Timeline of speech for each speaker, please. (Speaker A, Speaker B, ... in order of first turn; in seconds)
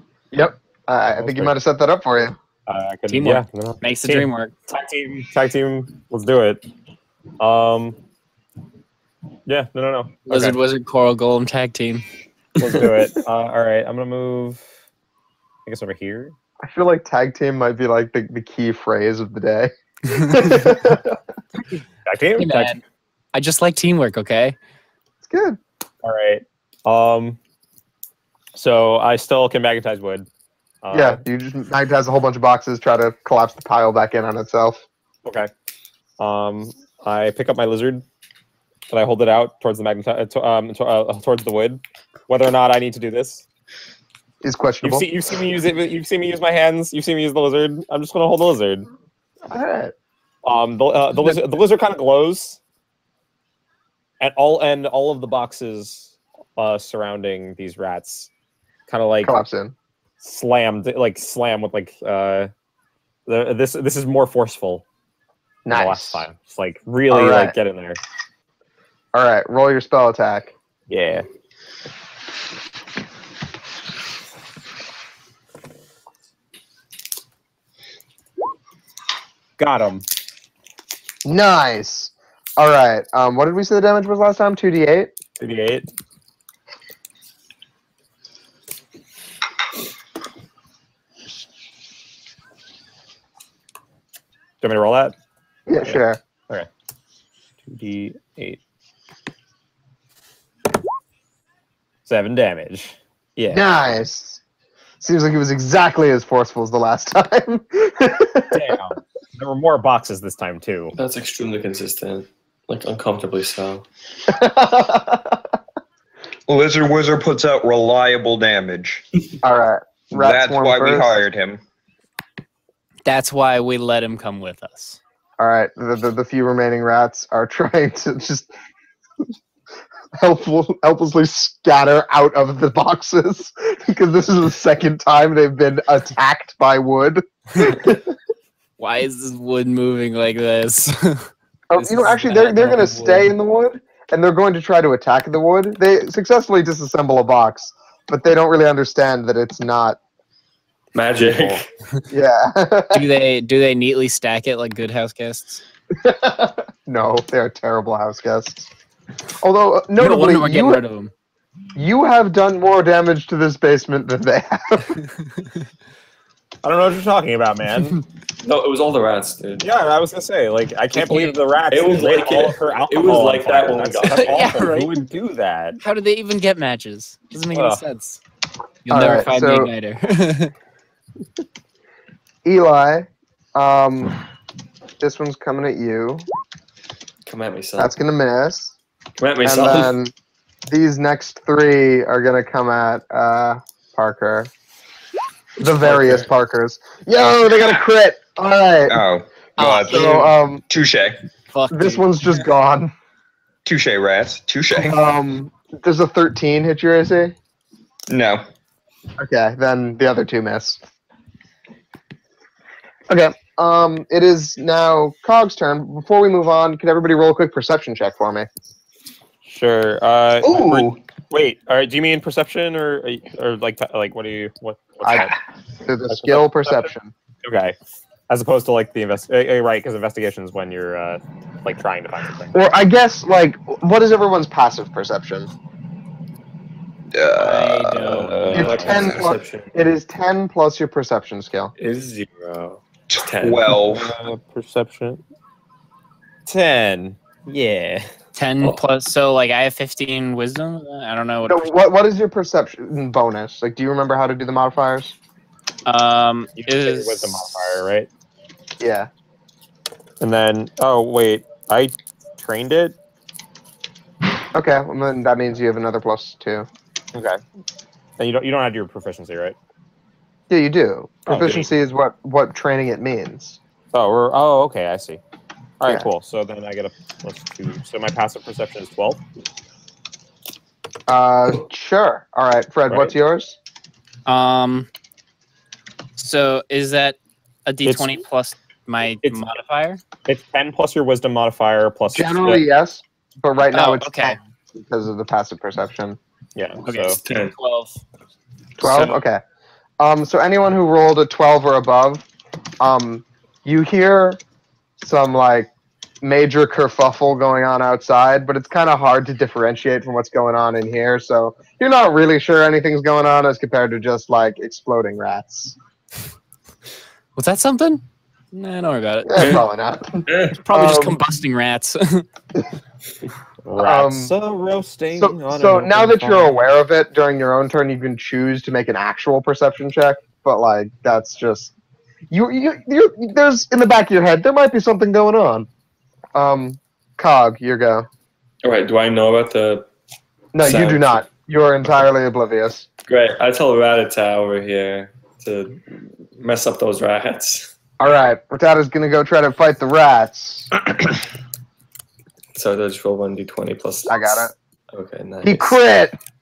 Speaker A: 0.3-2.3, 16.6-21.1, 25.2-25.6, 30.9-34.8, 44.4-45.1, 49.5-49.9, 59.2-59.7, 65.7-66.2, 67.1-67.5, 69.1-70.5, 81.2-85.1, 95.7-96.2, 103.5-104.4, 105.0-108.7, 114.3-115.4, 119.4-121.2, 125.4-128.5, 130.2-138.1, 141.7-150.0, 152.1-153.0, 156.0-158.7, 159.4-160.8, 161.8-165.0, 178.9-179.7, 182.4-184.2, 185.0-186.2, 187.8-188.8, 189.4-190.1, 190.7-194.5, 195.6-199.0, 199.8-200.6, 201.7-202.9, 204.8-207.3, 209.2-210.8, 213.1-218.5, 225.0-227.1, 232.5-235.5, 238.5-241.7, 251.4-255.1, 258.8-259.1, 264.5-266.7, 270.5-273.6, 281.1-283.6, 292.1-296.2, 298.8-299.4, 300.0-302.3, 302.8-304.4, 305.0-305.7, 306.2-315.8, 319.2-321.2, 323.8-324.3, 325.2-331.7, 332.3-335.7, 336.3-338.1, 340.5-342.8, 348.0-350.7, 354.1-354.5, 355.4-356.1
Speaker B: 1.1-1.5, 2.6-6.6, 7.4-8.0, 9.5-10.6, 12.6-14.6, 15.7-16.3, 22.0-22.8, 26.0-27.4, 28.5-30.3, 30.8-31.2, 35.2-35.5, 36.2-38.0, 38.9-43.4, 44.8-48.9, 50.4-52.6, 54.2-58.3, 58.9-59.4, 60.2-62.5, 63.2-64.8, 65.7-68.0, 70.9-71.2, 79.6-80.0, 85.4-85.9, 94.6-95.1, 95.8-96.7, 97.6-98.6, 102.0-103.6, 108.5-110.9, 151.2-151.6, 166.6-168.0, 169.6-175.8, 177.5-177.8, 219.4-225.3, 226.1-226.9, 227.4-227.7, 228.3-232.5, 238.1-239.2, 243.9-245.2, 246.4-248.1, 256.6-258.1, 260.2-262.9, 267.1-267.4, 268.2-269.6, 273.9-275.2, 275.8-279.2, 282.9-283.1, 287.8-288.1, 290.2-292.6, 296.5-297.2, 298.8-299.1, 323.6-326.6
Speaker C: 3.1-4.5, 10.3-12.0, 22.4-22.8, 23.3-24.6, 123.0-125.0, 138.8-143.3, 152.9-155.6, 160.0-161.1, 170.9-171.3, 174.1-175.0, 175.8-178.2, 178.8-180.5, 199.6-200.3, 201.5-202.4, 237.4-238.5, 248.3-251.7, 255.8-257.7, 284.2-284.9, 286.2-290.0, 293.7-294.4, 297.0-298.0, 317.4-319.6, 320.6-322.2
Speaker D: 110.9-113.8, 150.9-151.7, 168.4-169.7, 171.7-174.5, 187.2-187.9, 189.2-189.9, 195.8-196.3, 238.1-239.7, 241.8-243.7, 271.3-271.7, 296.9-297.6, 319.4-319.6, 320.3-320.6, 338.6-339.9, 340.6-341.2, 343.1-347.7, 352.5-355.8
Speaker E: 116.5-119.0, 120.2-121.6, 198.9-200.2, 200.7-201.2, 203.7-205.0, 208.1-208.4, 220.4-221.0, 237.1-238.2, 243.1-244.1